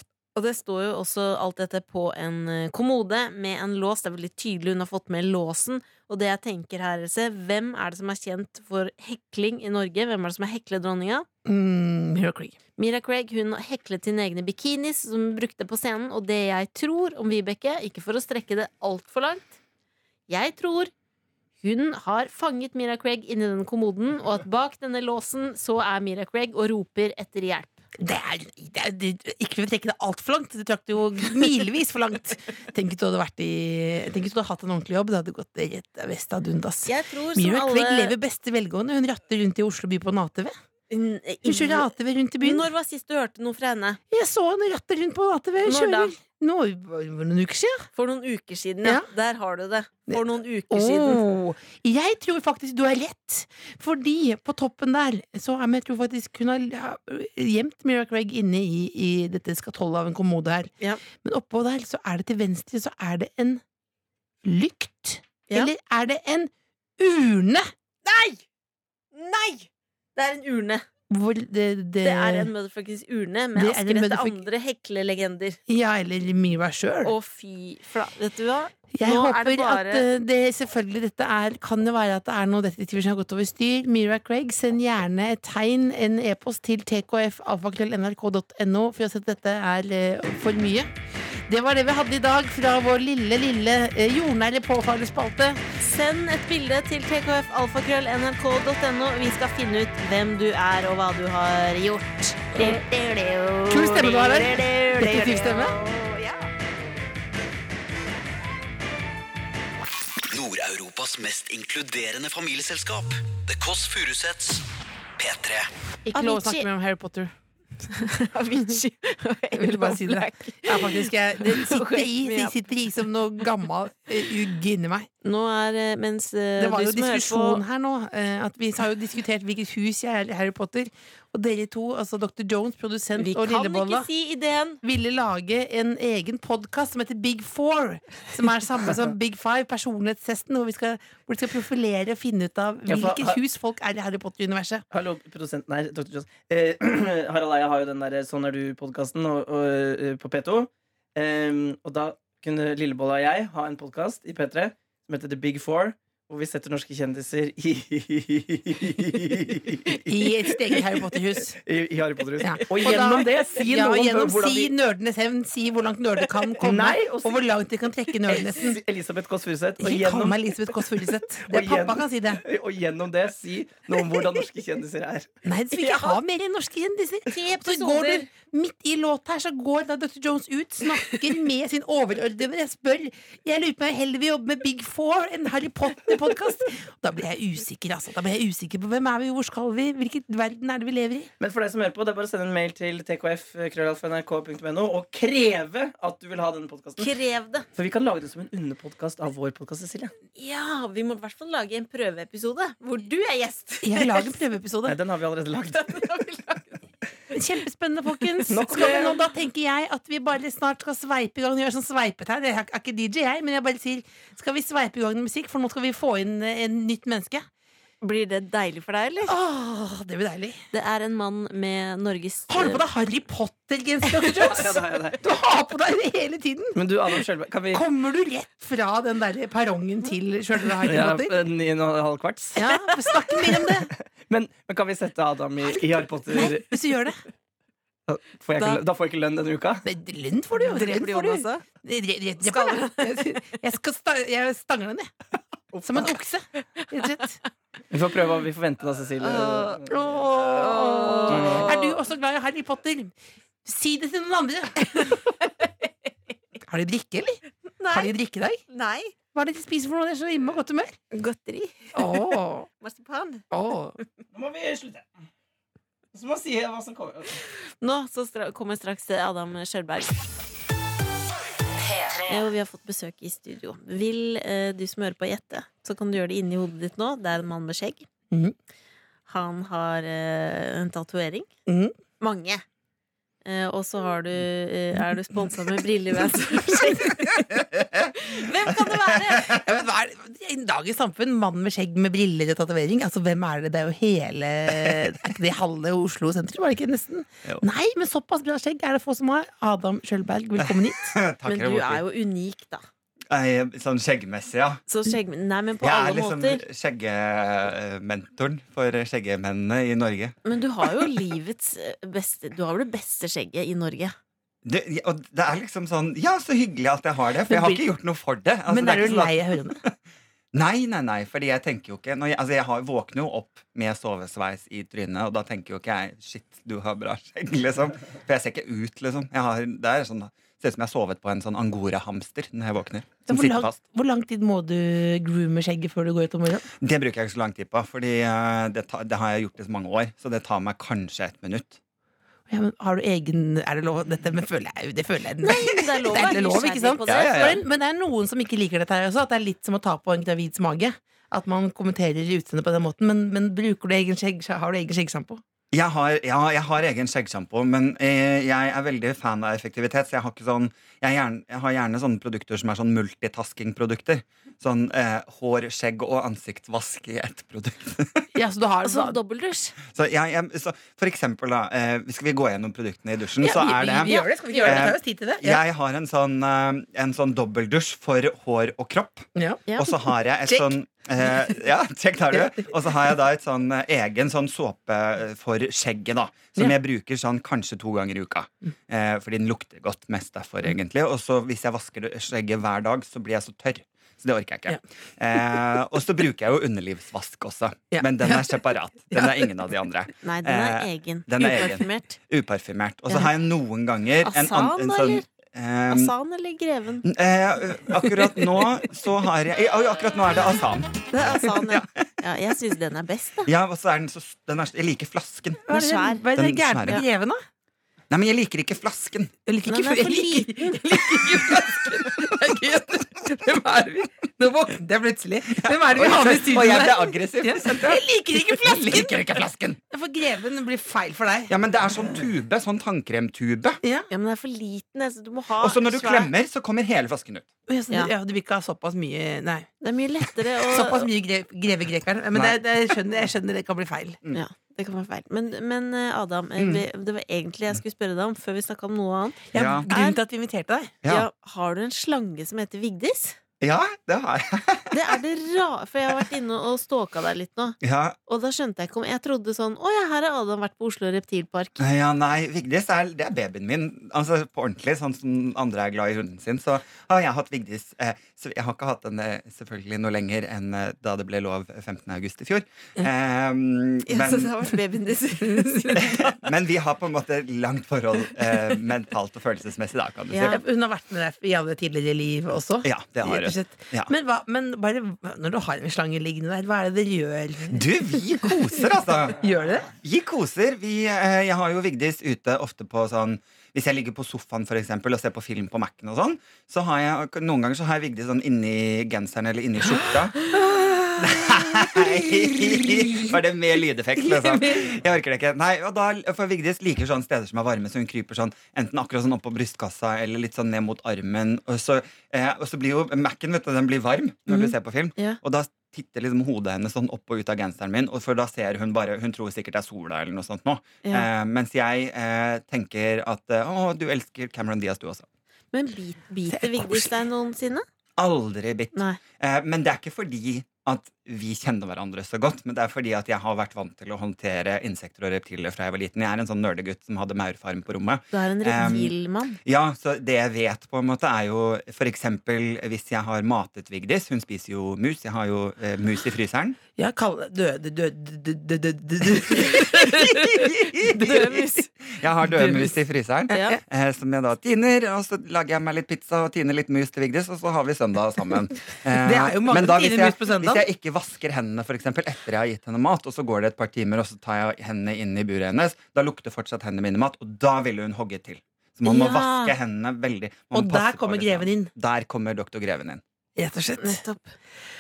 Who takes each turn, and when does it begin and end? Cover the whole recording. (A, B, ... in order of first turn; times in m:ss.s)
0:00.4-0:11.3 A
0:11.4-0:12.6 B
0:12.8-0:19.6 A
0:20.3-0:20.9 A
0:21.6-0:27.8 A
0:28.0-0:40.5 B
0:36.9-0:38.1 A
0:40.9-0:44.0 A
0:41.4-0:42.6 B
0:44.1-0:47.9 B
0:45.6-0:46.1 A
0:48.0-0:51.2 A
0:50.1-1:03.6 B
1:04.4-1:07.7 B
1:08.0-1:08.4 A
1:09.1-1:10.8 A
1:11.1-1:12.5 B
1:12.0-1:15.6 A
1:13.5-1:14.4 B
1:15.7-1:17.1 B
1:17.0-1:20.1 A
1:18.9-1:35.6 B
1:35.8-1:46.5 A
1:42.5-1:42.8 B
1:43.7-1:45.8 B
1:50.2-1:54.6 C
1:55.2-1:55.7 C
1:56.1-1:57.3 B
1:56.1-1:56.7 A
1:57.9-2:02.5 A
1:59.5-2:05.1 B
2:05.2-2:07.6 A
2:06.6-2:14.1 B
2:13.2-2:14.8 A
2:14.8-2:24.8 B
2:22.9-2:23.4 D
2:24.9-2:40.0 D
2:40.1-2:41.6 B
2:41.5-2:44.7 D
2:42.4-2:48.8 B
2:46.5-2:47.5 D
2:48.3-2:50.5 D
2:49.8-2:52.4 B
2:51.4-2:55.3 D
2:55.4-3:11.3 B
2:55.7-2:56.2 A
2:57.3-2:58.3 A
3:11.4-3:17.1 D
3:17.0-3:17.6 A
3:17.8-3:20.1 D
3:20.4-3:24.3 A
3:23.8-3:25.0 B
3:24.8-3:26.0 D
3:25.7-3:26.8 A
3:27.3-3:37.5 B
3:28.5-3:29.2 D
3:28.6-3:29.1 A
3:38.0-3:39.4 A
3:39.2-3:40.6 B
3:40.7-3:42.8 A
3:42.5-3:46.8 B
3:44.2-3:45.2 D
3:46.8-3:47.8 D
3:47.7-3:51.4 B
3:50.8-3:52.6 D
3:52.5-3:53.9 B
3:54.2-3:56.7 D
3:56.3-3:57.2 B
3:58.1-3:59.8 D
3:59.8-4:05.1 B
4:00.6-4:01.6 A
4:02.4-4:03.4 A
4:05.7-4:06.1 D
4:05.8-4:07.4 B
4:06.8-4:07.3 A
4:07.9-4:10.0 D
4:09.2-4:09.8 A
4:09.9-4:13.1 B
4:10.5-4:12.0 A
4:11.3-4:11.8 D
4:13.6-4:15.2 B
4:14.9-4:15.7 A
4:16.6-4:18.6 B
4:17.8-4:18.1 A
4:18.7-4:19.1 A
4:19.3-4:21.0 B
4:21.1-4:23.4 A
4:22.0-4:22.7 B
4:23.5-4:24.0 B
4:24.3-4:25.1 D
4:26.1-4:27.4 D
4:27.8-4:30.2 A
4:32.2-4:38.1 A
4:39.3-4:41.5 A
4:41.7-4:41.9 B
4:42.2-4:42.6 A
4:43.4-4:49.6 A
4:46.6-4:47.0 B
4:47.8-4:48.1 E
4:49.4-5:01.2 B
5:00.6-5:02.0 E
5:01.4-5:02.8 A
5:03.3-5:04.8 E
5:04.9-5:06.6 A
5:05.8-5:10.4 E
5:10.4-5:14.1 A
5:14.6-5:19.9 E
5:17.5-5:17.8 B
5:18.7-5:19.8 B
5:20.5-5:33.8 E
5:33.3-5:36.7 B
5:36.8-5:41.8 E
5:42.5-5:55.4 B
5:45.4-5:47.6 A
5:47.1-5:47.6 E
5:55.7-6:08.3 E
6:08.4-6:09.2 B
6:08.8-6:09.8 A
6:09.9-6:19.3 E
6:13.4-6:15.6 B
6:14.1-6:14.9 A
6:19.4-6:19.7 B
6:19.8-6:46.1 E
6:22.3-6:22.6 B
6:37.9-6:39.5 B
6:40.2-6:42.2 A
6:44.2-6:45.2 A
6:45.9-6:47.1 A
6:47.0-6:52.0 E
6:51.1-6:53.5 A
6:53.4-6:55.7 E
6:55.7-6:57.4 B
6:55.7-6:56.2 A
6:56.4-6:57.0 E
6:58.1-6:59.3 E
6:59.4-7:11.6 B
6:59.7-7:00.8 A
7:05.6-7:09.8 E
7:11.5-7:13.8 E
7:13.8-7:14.1 B
7:14.1-7:16.3 A
7:15.6-7:17.5 E
7:17.7-7:19.7 B
7:19.8-7:21.1 A
7:20.6-7:24.2 B
7:24.3-7:30.2 A
7:26.6-7:26.8 E
7:29.5-7:31.0 B
7:29.6-7:29.9 E
7:31.1-7:33.4 A
7:33.6-7:35.1 E
7:34.9-7:37.8 A
7:37.8-7:38.2 E
7:38.3-7:41.8 A
7:41.8-7:54.7 E
7:54.1-7:56.3 A
7:55.6-7:55.9 B
7:55.9-8:00.6 E
8:00.3-8:00.6 A
8:00.4-8:08.5 B
8:02.8-8:04.1 E
8:07.7-8:09.4 E
8:09.4-8:09.9 B
8:10.0-8:20.4 E
8:19.9-8:23.4 B
8:21.2-8:45.3 E
8:24.2-8:24.9 B
8:34.5-8:35.4 A
8:45.7-8:47.8 A
8:46.5-8:46.9 B
8:48.2-9:06.8 E
8:48.9-8:49.2 A
8:58.3-8:59.6 A
9:07.0-9:11.9 B
9:10.1-9:33.2 E
9:11.2-9:11.9 A
9:12.4-9:13.0 B
9:13.5-9:13.8 B
9:13.5-9:13.8 A
9:19.1-9:20.8 B
9:29.1-9:29.7 A
9:30.7-9:31.9 B
9:33.6-9:34.2 B
9:34.0-9:34.5 A